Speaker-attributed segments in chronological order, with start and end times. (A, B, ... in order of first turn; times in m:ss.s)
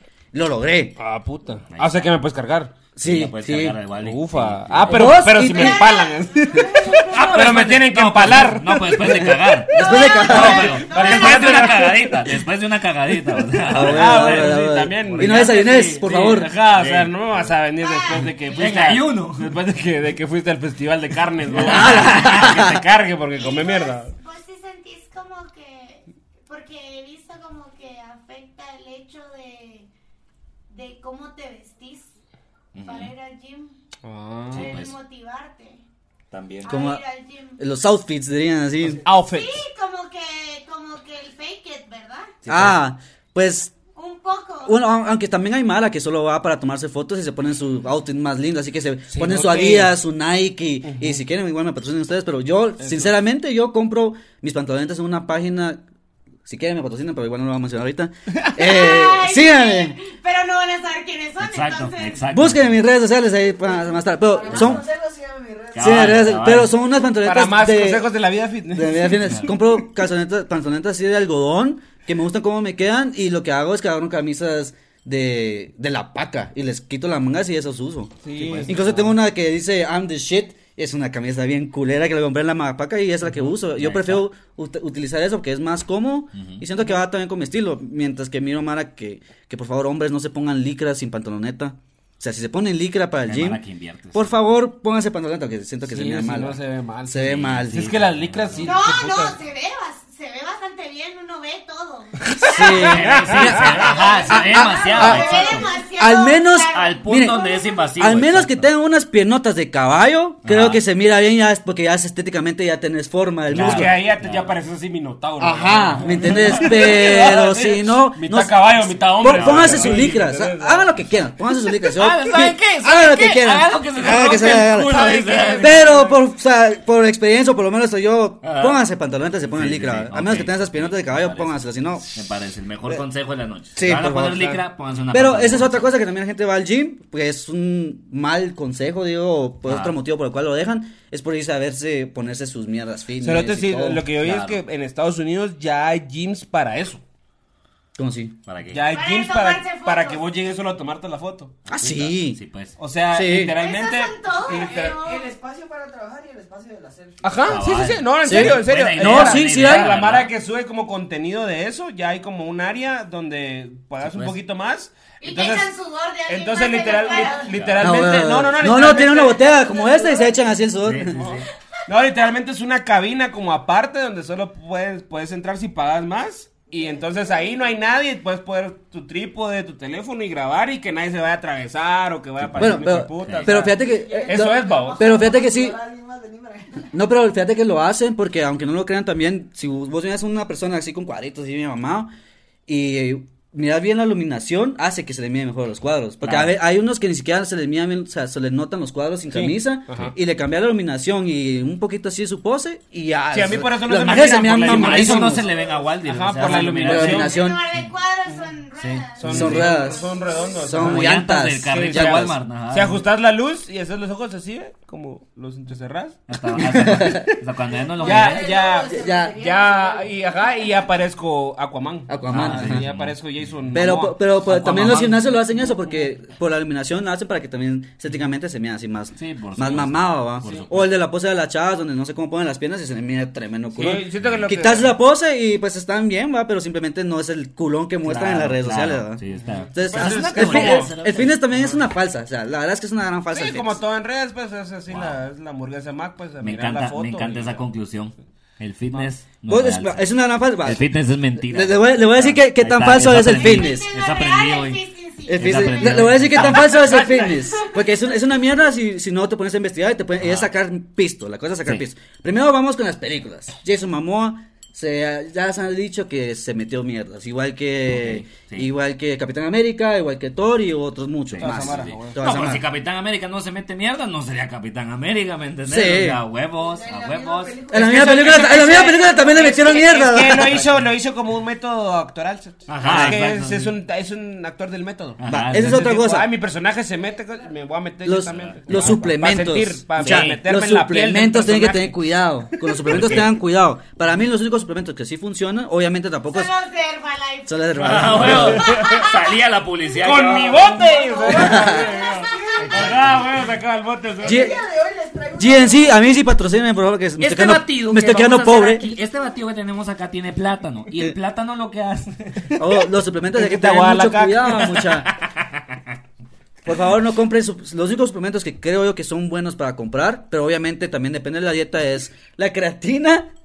0:00.3-0:01.0 A
0:01.0-0:02.7 B
0:01.7-0:02.2 C
0:03.0-0:03.8 A
0:03.0-0:05.2 C
0:04.0-0:09.4 B
0:04.9-0:06.0 A
0:05.5-0:06.9 D
0:06.8-0:17.5 C
0:09.1-0:10.8 A
0:09.8-0:11.5 D
0:10.2-0:12.3 B
0:13.7-0:16.5 A
0:13.7-0:24.1 B
0:17.8-0:18.6 D
0:18.5-0:19.5 C
0:21.6-0:22.7 C
0:21.6-0:22.8 A
0:23.4-0:29.9 D
0:30.7-0:32.1 D
0:32.7-0:33.1 C
0:32.8-0:33.8 D
0:34.0-0:34.8 B
0:34.5-0:34.9 C
0:34.5-0:35.8 D
0:36.3-0:36.8 C
0:36.6-0:37.6 D
0:36.7-0:37.0 A
0:37.6-0:39.0 A
0:39.0-0:39.6 B
0:39.3-0:42.3 D
0:42.4-0:42.8 C
0:42.5-0:43.7 A
0:43.9-0:44.8 D
0:44.6-0:55.8 A
0:49.1-0:50.0 B
0:50.8-0:51.2 B
0:52.8-0:53.1 B
0:56.4-1:00.0 A
0:58.6-1:02.3 D
1:01.4-1:02.7 C
1:02.3-1:04.8 A
1:04.3-1:06.4 E
1:05.7-1:06.7 C
1:05.8-1:08.1 A
1:07.2-1:09.4 B
1:08.7-1:33.6 A
1:18.2-1:18.8 B
1:18.4-1:19.2 C
1:23.6-1:24.2 C
1:26.4-1:26.6 C
1:33.2-1:34.4 C
1:34.1-1:37.9 A
1:35.9-1:39.4 B
1:37.2-1:38.8 C
1:38.6-1:43.0 D
1:42.4-1:53.9 A
1:42.5-1:45.8 C
1:42.8-1:44.2 B
1:43.6-1:47.8 D
1:44.9-1:45.2 B
1:46.7-1:48.7 C
1:50.4-1:50.8 C
1:53.5-1:54.6 C
1:53.5-2:01.1 B
1:55.4-2:05.0 A
1:56.0-1:56.9 C
1:59.3-2:00.1 C
2:01.9-2:06.1 C
2:04.7-2:06.2 B
2:05.6-2:12.1 A
2:08.4-2:08.8 C
2:09.4-2:11.6 C
2:12.1-2:15.9 C
2:13.8-2:14.5 A
2:15.1-2:24.0 A
2:19.6-2:20.0 C
2:23.2-2:27.0 B
2:24.2-2:24.6 C
2:28.0-2:28.4 A
2:28.4-2:28.9 C
2:28.7-2:31.5 B
2:28.8-2:30.2 D
2:31.7-2:32.4 A
2:31.7-2:32.8 C
2:32.8-2:35.0 B
2:33.1-2:33.6 A
2:33.5-2:35.3 D
2:34.5-2:37.8 E
2:37.2-2:45.7 B
2:37.5-2:40.3 C
2:38.2-2:40.0 A
2:44.0-2:44.4 C
2:45.2-2:47.8 D
2:46.3-2:49.6 B
2:47.5-2:47.9 C
2:47.8-2:51.2 A
2:49.5-2:50.4 E
2:50.8-2:51.4 C
2:51.2-2:51.4 D
2:51.2-3:05.0 B
2:56.9-2:57.6 E
3:02.5-3:05.8 A
3:02.6-3:03.7 C
3:03.8-3:06.9 E
3:06.9-3:12.1 A
3:12.7-3:25.5 A
3:16.2-3:16.6 C
3:19.3-3:20.1 B
3:23.3-3:27.4 B
3:24.6-3:27.4 C
3:26.4-3:27.6 A
3:27.0-3:29.6 D
3:28.8-3:29.7 C
3:29.2-3:36.2 B
3:29.2-3:32.4 A
3:29.8-3:30.6 E
3:30.8-3:33.0 C
3:36.3-3:38.5 C
3:36.5-3:37.4 A
3:38.0-3:40.1 E
3:38.0-3:44.2 B
3:38.9-3:39.3 A
3:42.1-3:42.8 A
3:42.3-3:43.2 C
3:43.7-4:03.8 A
3:44.4-3:45.3 C
3:49.2-3:50.9 C
3:50.4-3:50.7 B
3:53.8-3:54.9 B
3:58.0-4:01.4 C
3:59.4-4:01.0 B
4:03.3-4:07.6 B
4:04.9-4:05.2 C
4:06.4-4:17.1 C
4:09.5-4:13.9 A
4:13.4-4:17.7 D
4:15.3-4:32.6 A
4:16.9-4:17.2 B
4:20.2-4:20.5 C
4:27.9-4:28.7 C
4:31.3-4:37.7 C
4:31.4-4:32.2 B
4:35.7-4:36.2 A
4:36.6-4:40.0 E
4:37.7-4:40.6 A
4:37.7-4:52.0 B
4:40.4-4:40.8 C
4:42.7-4:43.7 C
4:42.8-4:43.2 A
4:45.2-4:45.8 C
4:45.3-4:46.3 A
4:48.0-4:56.5 A
4:48.3-4:49.1 C
4:50.0-4:50.4 C
4:52.9-4:53.3 C
4:56.2-4:59.3 D
4:57.4-4:58.6 A
4:57.8-5:00.7 C
4:58.3-4:58.8 B
5:00.0-5:04.5 B
5:00.3-5:02.7 D
5:01.2-5:03.1 E
5:01.3-5:01.9 A
5:02.6-5:03.2 C
5:04.2-5:06.1 E
5:04.2-5:04.6 A
5:05.4-5:08.8 A
5:07.2-5:12.6 C
5:12.5-5:15.1 A
5:13.3-5:14.8 B
5:14.8-5:15.6 C
5:16.6-5:23.3 A